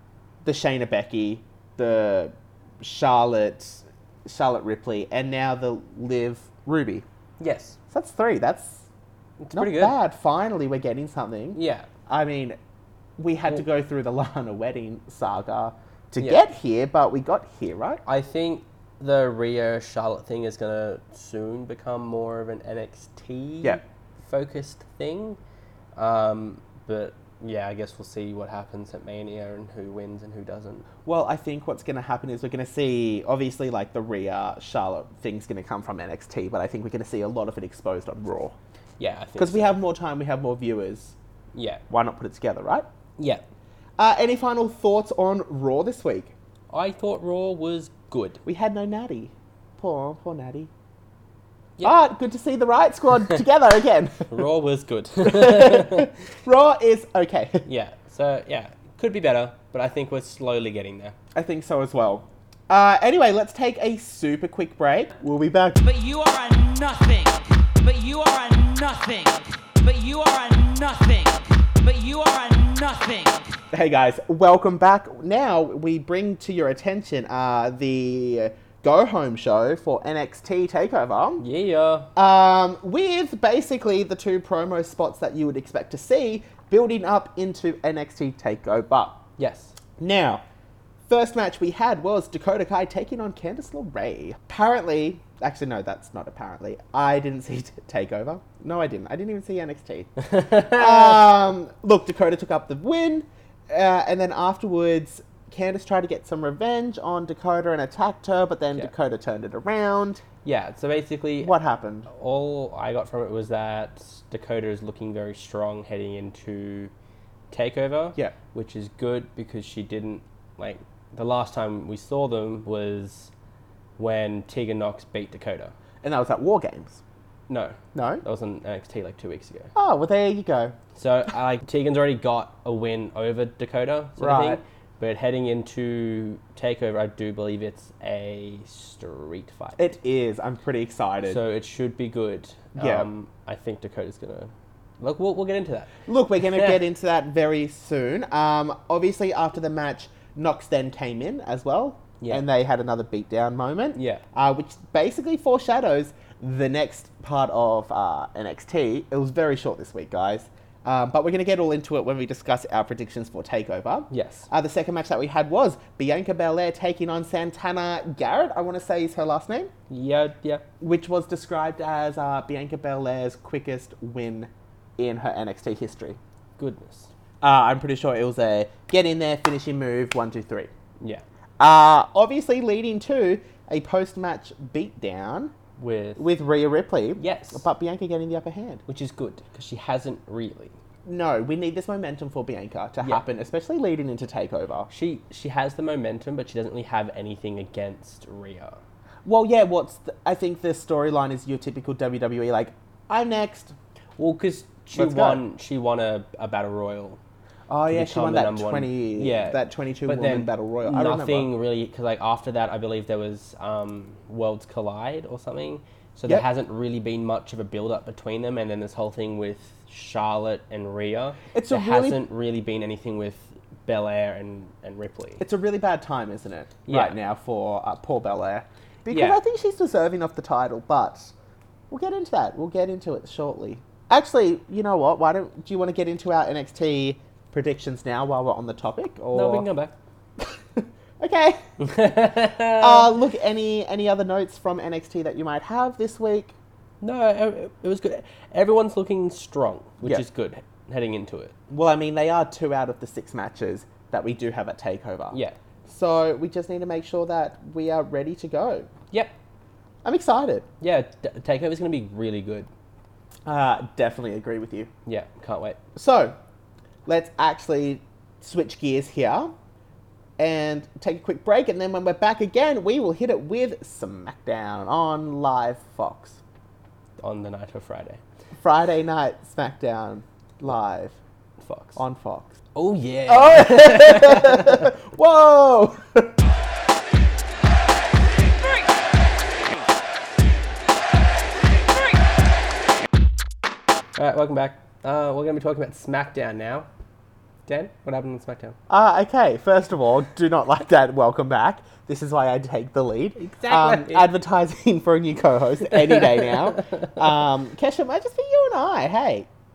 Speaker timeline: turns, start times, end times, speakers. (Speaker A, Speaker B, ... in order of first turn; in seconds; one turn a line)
Speaker A: 0.4-7.0
Speaker B: 7.4-7.8
Speaker A: 7.9-8.9
Speaker B: 9.4-10.0
Speaker A: 9.5-12.6
Speaker B: 11.5-11.9
Speaker A: 13.2-18.0
Speaker B: 18.1-25.4
Speaker B: 26.0-30.9
Speaker A: 31.0-38.5
Speaker B: 39.0-39.8
Speaker A: 39.4-41.2
Speaker B: 41.5-41.8
Speaker A: 41.9-42.9
Speaker B: 43.2-43.4
Speaker A: 44.0-46.3
Speaker B: 46.7-48.4
Speaker A: 48.5-50.7
Speaker A: 51.8-54.3
Speaker B: 54.3-56.1
Speaker A: 55.2-57.6
Speaker B: 57.6-61.1
Speaker A: 61.4-65.8
Speaker C: 65.8-73.6
Speaker A: 73.7-81.4
Speaker B: 81.4-82.1
Speaker A: 82.2-89.2
Speaker B: 89.4-89.8
Speaker A: 90.0-90.4
Speaker A: 91.1-110.2
Speaker B: 100.2-101.2
Speaker B: 110.4-111.5
Speaker A: 111.4-112.1
Speaker B: 112.1-116.9
Speaker B: 117.5-123.3
Speaker B: 124.0-125.7
Speaker A: 126.0-127.0
Speaker B: 127.5-129.7
Speaker A: 127.9-128.2
Speaker A: 129.8-130.8
Speaker B: 131.0-139.8
Speaker A: 134.2-134.6
Speaker A: 139.8-141.4
Speaker B: 141.3-146.0
Speaker A: 142.8-143.1
Speaker A: 146.1-169.7
Speaker B: 152.2-152.4
Speaker B: 153.9-154.2
Speaker B: 164.1-164.5
Speaker B: 169.9-170.7
Speaker A: 170.8-176.2
Speaker B: 176.6-177.1
Speaker A: 177.4-180.7
Speaker A: 181.6-185.5
Speaker B: 185.8-186.2
Speaker A: 186.2-188.8
Speaker B: 187.2-187.7
Speaker B: 188.9-190.8
Speaker A: 191.1-194.9
Speaker B: 194.9-198.8
Speaker A: 199.2-203.8
Speaker B: 204.2-207.2
Speaker A: 204.9-205.4
Speaker A: 207.7-211.5
Speaker B: 207.9-225.4
Speaker A: 221.5-222.2
Speaker A: 225.4-231.3
Speaker B: 226.9-227.2
Speaker B: 229.1-229.4
Speaker A: 231.9-239.7
Speaker B: 239.3-239.9
Speaker A: 240.4-246.5
Speaker B: 241.8-243.1
Speaker B: 247.0-251.6
Speaker A: 251.7-258.9
Speaker A: 260.0-260.7
Speaker B: 260.8-262.7
Speaker A: 263.5-264.9
Speaker B: 265.1-265.8
Speaker A: 266.0-266.4
Speaker A: 267.1-269.5
Speaker A: 270.4-276.4
Speaker B: 277.2-278.2
Speaker A: 278.6-281.2
Speaker B: 281.6-282.0
Speaker A: 282.0-282.6
Speaker B: 282.8-284.9
Speaker A: 283.3-286.3
Speaker B: 294.2-296.9
Speaker B: 297.7-298.8
Speaker A: 298.9-309.5
Speaker B: 303.4-304.3